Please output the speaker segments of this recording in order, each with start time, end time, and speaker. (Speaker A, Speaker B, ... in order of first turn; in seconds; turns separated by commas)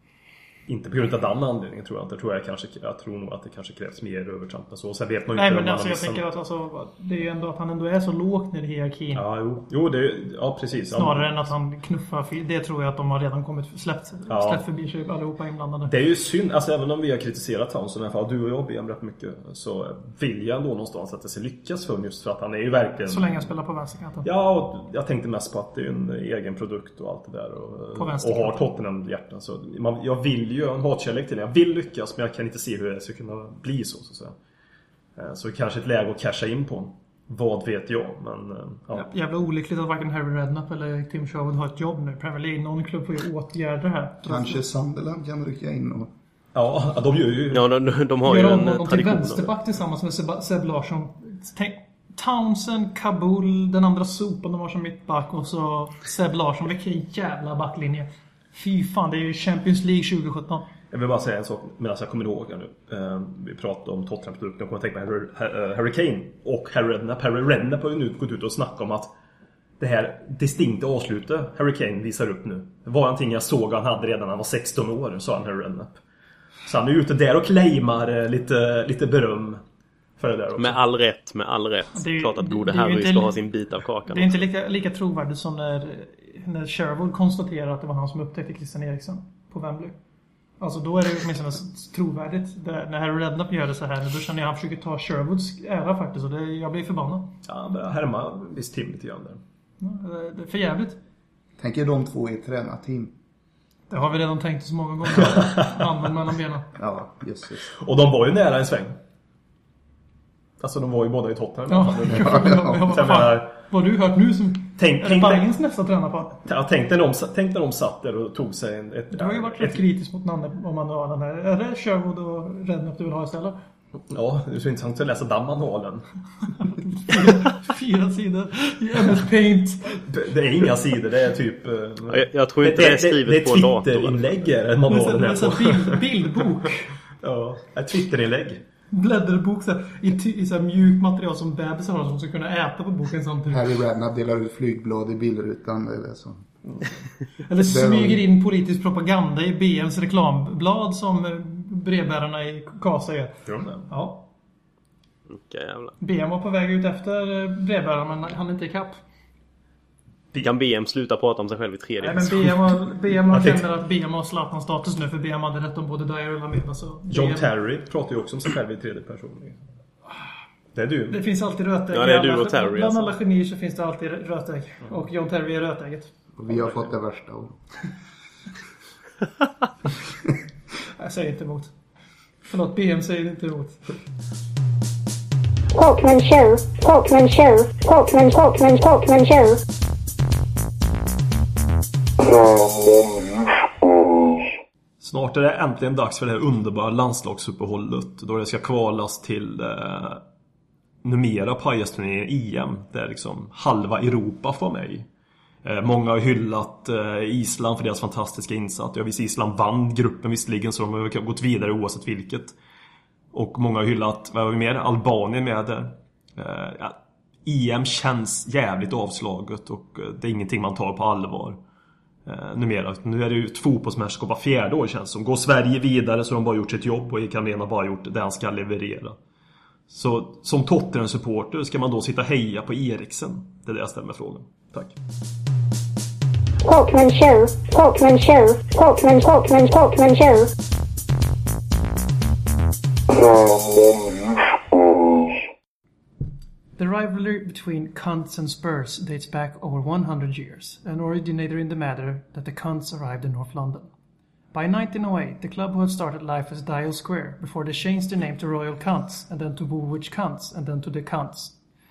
Speaker A: 0.7-6.2, Speaker B: 5.3-9.2, Speaker A: 9.1-11.5, Speaker B: 10.9-15.9, Speaker A: 14.3-14.6, Speaker A: 15.8-23.5, Speaker B: 23.1-24.2, Speaker A: 24.2-34.4, Speaker B: 27.9-28.7, Speaker A: 35.2-39.1, Speaker B: 38.9-44.6, Speaker C: 44.3-46.1, Speaker A: 46.5-47.6, Speaker D: 47.5-49.5, Speaker B: 48.2-60.7, Speaker A: 60.9-69.1, Speaker A: 69.8-76.0, Speaker A: 76.7-79.6, Speaker A: 80.2-80.8, Speaker D: 80.6-84.4, Speaker B: 81.9-83.4, Speaker B: 84.1-90.0, Speaker B: 90.6-97.4, Speaker A: 97.5-99.4, Speaker B: 99.8-101.0, Speaker C: 101.6-103.1, Speaker B: 103.9-106.7, Speaker A: 105.2-105.9, Speaker C: 106.8-107.7, Speaker A: 107.7-109.0, Speaker A: 110.6-113.6, Speaker B: 111.7-116.4, Speaker C: 112.1-112.8, Speaker A: 114.8-115.5, Speaker A: 116.4-119.8, Speaker B: 119.1-123.6, Speaker A: 124.1-126.1, Speaker B: 126.6-130.0, Speaker A: 130.1-136.5, Speaker D: 132.1-134.3, Speaker B: 134.9-137.0, Speaker A: 137.2-138.6, Speaker B: 138.9-143.7, Speaker C: 143.5-146.9, Speaker B: 147.5-154.3, Speaker C: 147.6-148.2, Speaker A: 153.5-153.9, Speaker D: 155.3-156.0, Speaker B: 156.0-159.0, Speaker D: 160.3-162.6, Speaker B: 162.0-167.5, Speaker A: 163.3-163.6, Speaker A: 167.1-169.6, Speaker A: 170.8-171.2, Speaker B: 171.1-176.1, Speaker D: 171.9-173.2, Speaker C: 176.4-177.6, Speaker A: 176.5-176.8, Speaker B: 181.0-181.8, Speaker B: 182.4-183.8, Speaker E: 185.8-189.6, Speaker A: 195.0-200.2, Speaker A: 201.0-205.1, Speaker A: 205.6-212.6, Speaker A: 213.3-221.6, Speaker A: 222.3-229.2, Speaker A: 229.9-234.9, Speaker E: 236.7-240.5, Speaker B: 246.8-253.9, Speaker B: 254.5-261.6